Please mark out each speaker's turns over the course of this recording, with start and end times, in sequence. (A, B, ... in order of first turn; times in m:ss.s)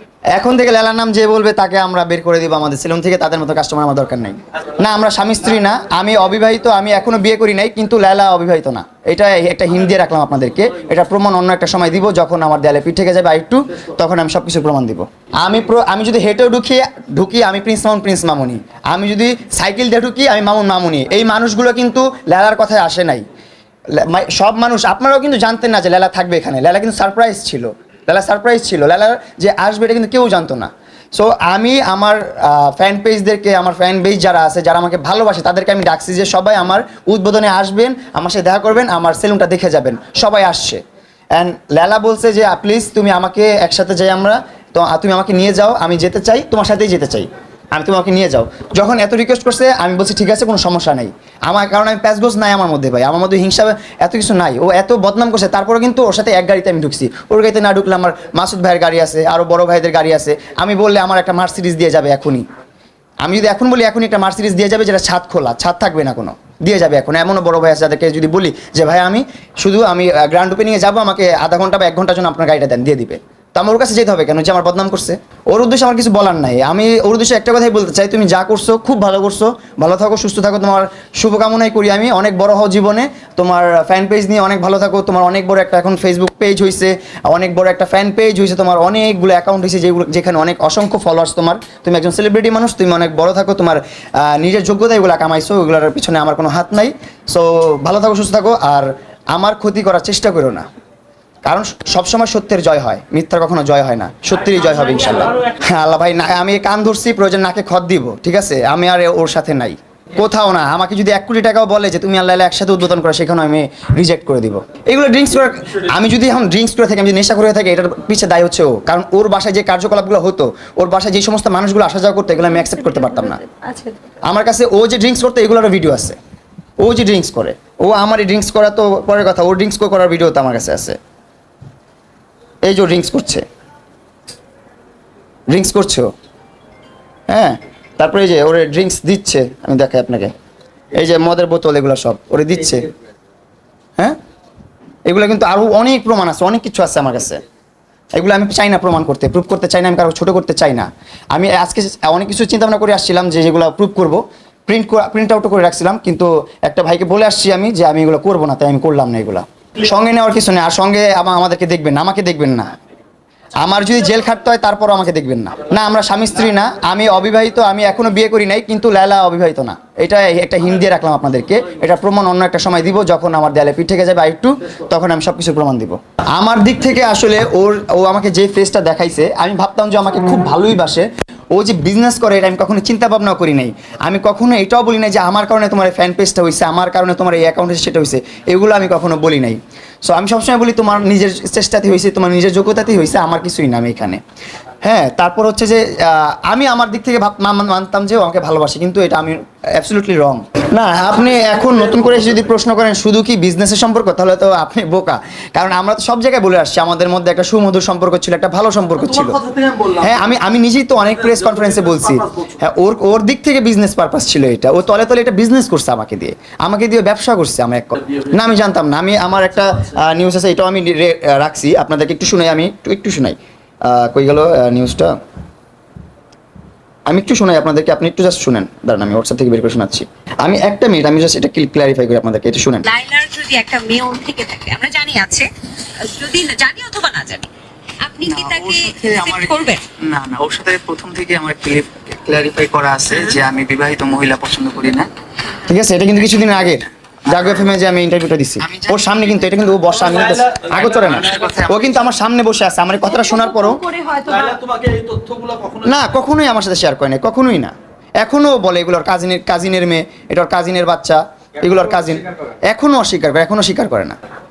0:00.3-0:23.2 A
0:23.9-0:40.8 A
0:41.4-1:02.4 A
1:03.2-1:40.7 A
1:41.4-2:03.4 A
2:02.9-2:04.0 B
2:04.2-2:06.2 A
2:06.8-2:11.0 A
2:12.6-2:13.4 A
2:15.5-2:16.1 A
2:17.3-2:20.3 A
2:20.9-2:22.9 A
2:25.1-2:27.4 A
2:28.1-2:42.7 A
2:43.6-3:14.2 A
3:14.8-3:29.4 A
3:21.3-3:22.4 C
3:29.0-3:30.4 C
3:30.0-3:45.2 A
3:31.0-3:32.6 C
3:47.1-3:52.9 A
3:52.8-3:57.5 D
3:58.0-3:59.8 D
3:58.3-3:58.7 E
4:00.1-4:00.7 A
4:00.1-4:05.1 E
4:01.8-4:02.4 A
4:03.0-4:03.4 D
4:05.5-4:13.8 A
4:09.9-4:11.4 C
4:11.3-4:11.8 E
4:13.1-4:14.6 B
4:14.3-4:16.2 C
4:15.8-4:24.2 A